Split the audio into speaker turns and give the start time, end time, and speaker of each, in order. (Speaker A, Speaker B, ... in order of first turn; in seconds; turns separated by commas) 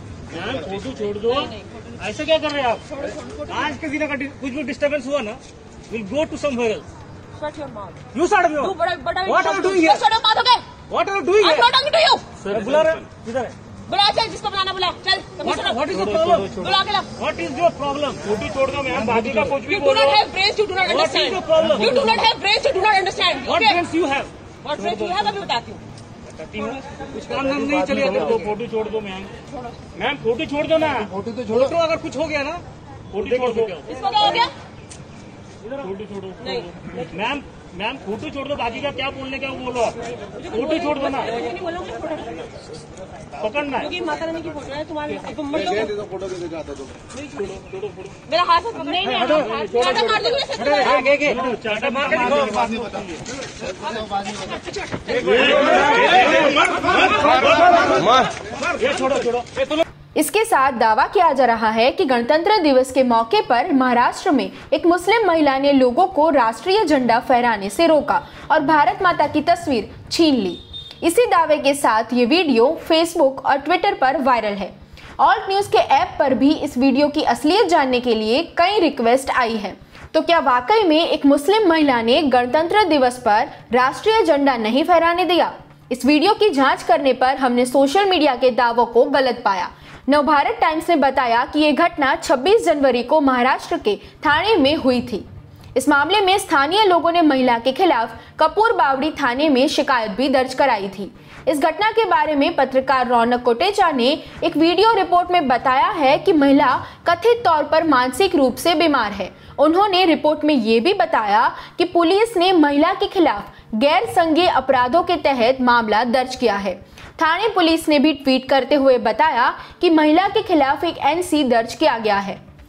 Speaker A: 0.4-2.8, Speaker A: 3.5-6.9, Speaker B: 7.5-7.9, Speaker A: 8.1-10.1, Speaker B: 8.8-10.7, Speaker A: 10.8-11.8, Speaker B: 11.6-12.3, Speaker A: 12.4-13.5, Speaker B: 13.9-15.6, Speaker A: 15.4-22.3, Speaker B: 16.6-17.1, Speaker B: 20.0-21.1, Speaker B: 22.1-23.6, Speaker A: 23.4-25.3, Speaker B: 24.7-25.8, Speaker A: 26.6-29.3, Speaker A: 29.9-34.5, Speaker B: 34.0-34.5, Speaker A: 35.7-41.5, Speaker B: 41.5-42.0, Speaker A: 43.4-44.0, Speaker B: 44.0-46.1, Speaker B: 48.3-51.0, Speaker A: 48.9-53.0, Speaker A: 58.9-59.4, Speaker C: 60.1-122.4